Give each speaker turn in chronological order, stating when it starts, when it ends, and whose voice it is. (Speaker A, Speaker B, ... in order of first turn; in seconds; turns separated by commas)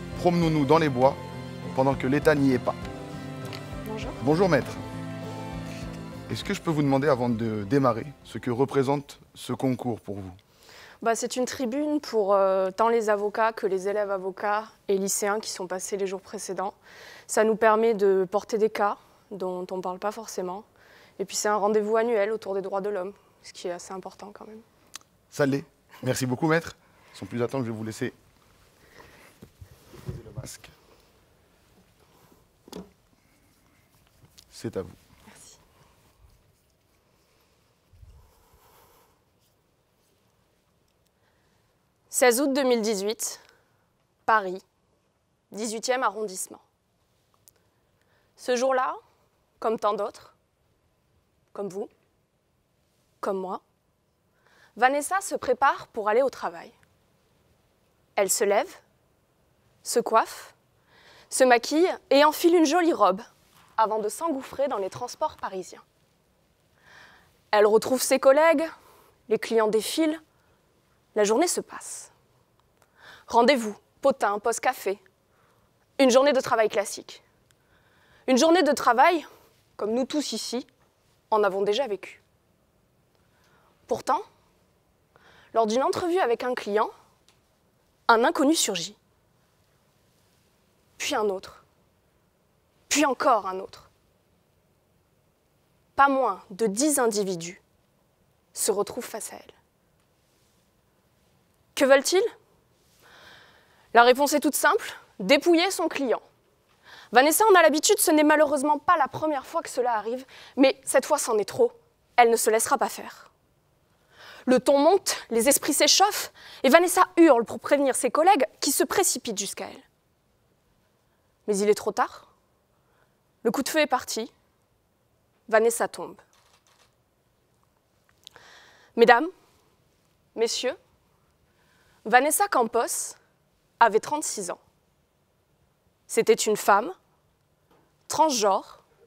Speaker A: 0.1-1.2, Speaker A: 1.7-2.8, Speaker B: 3.8-4.2, Speaker A: 4.2-4.8, Speaker A: 6.3-10.4, Speaker B: 11.0-16.8, Speaker B: 17.3-20.6, Speaker B: 21.2-24.6, Speaker A: 25.3-28.1, Speaker A: 30.2-30.7, Speaker A: 34.5-35.0, Speaker B: 42.1-43.4, Speaker B: 44.2-44.6, Speaker B: 45.5-46.6, Speaker B: 48.4-49.0, Speaker B: 49.6-50.3, Speaker B: 51.5-51.9, Speaker B: 53.2-53.6, Speaker B: 54.8-56.8, Speaker B: 58.2-58.8, Speaker B: 59.8-60.5, Speaker B: 61.3-63.2, Speaker B: 63.8-65.8, Speaker B: 67.5-68.7, Speaker B: 69.3-70.2, Speaker B: 71.1-72.1, Speaker B: 73.3-75.0, Speaker B: 76.0-77.2, Speaker B: 78.3-80.7, Speaker B: 81.3-82.2, Speaker B: 83.9-84.2, Speaker B: 85.5-86.9, Speaker B: 88.1-89.0, Speaker B: 91.0-91.6, Speaker B: 92.9-93.9, Speaker B: 96.0-97.6, Speaker B: 98.5-99.5, Speaker B: 101.8-102.3, Speaker B: 103.9-106.2, Speaker B: 107.1-113.3, Speaker B: 114.5-119.8, Speaker B: 121.5-122.3, Speaker B: 123.4-124.3, Speaker B: 125.5-126.2, Speaker B: 128.9-129.3, Speaker B: 130.3-130.8, Speaker B: 132.0-133.2, Speaker B: 133.8-134.6, Speaker B: 136.1-136.9, Speaker B: 138.1-138.8